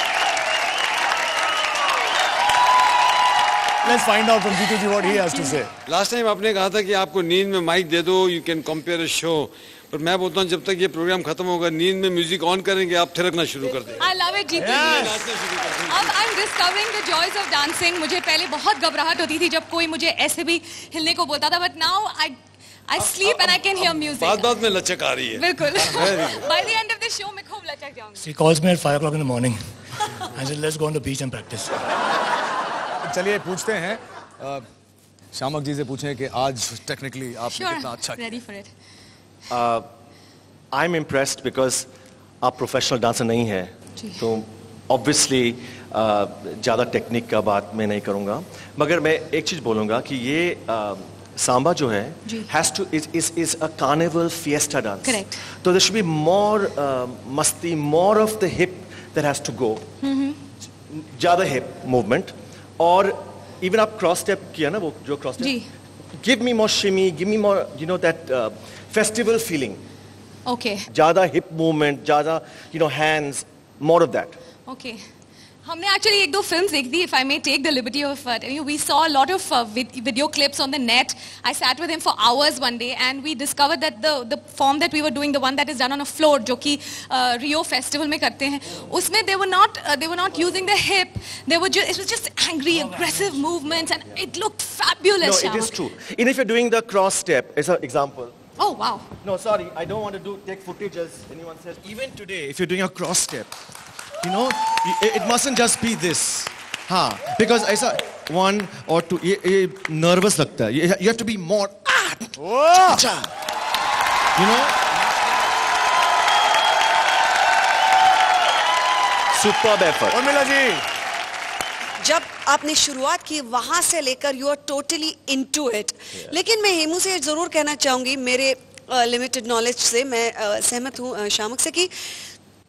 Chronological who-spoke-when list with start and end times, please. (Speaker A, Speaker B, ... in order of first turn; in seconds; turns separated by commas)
Speaker A: 3.8-5.7, Speaker B: 5.2-5.6, Speaker C: 5.9-14.1, Speaker B: 14.0-15.2, Speaker A: 14.6-15.2, Speaker C: 14.6-16.1, Speaker B: 15.9-24.7, Speaker C: 23.0-26.4, Speaker B: 25.3-28.3, Speaker D: 28.2-29.5, Speaker D: 30.4-31.6, Speaker A: 33.0-34.6, Speaker A: 35.3-38.4, Speaker B: 37.5-38.7, Speaker E: 39.5-39.9, Speaker E: 40.7-41.9, Speaker E: 42.4-59.9, Speaker B: 44.0-44.3, Speaker B: 55.0-55.4, Speaker E: 60.9-65.6, Speaker B: 65.4-65.7, Speaker E: 66.2-69.8, Speaker B: 70.5-70.9, Speaker E: 70.9-74.4, Speaker B: 74.7-75.0, Speaker B: 75.6-95.8, Speaker E: 95.2-98.3, Speaker B: 98.6-99.0, Speaker E: 99.2-103.5, Speaker E: 104.2-112.3, Speaker A: 112.4-113.1, Speaker E: 114.4-114.8, Speaker E: 119.3-120.3, Speaker A: 120.1-120.8, Speaker F: 122.0-132.3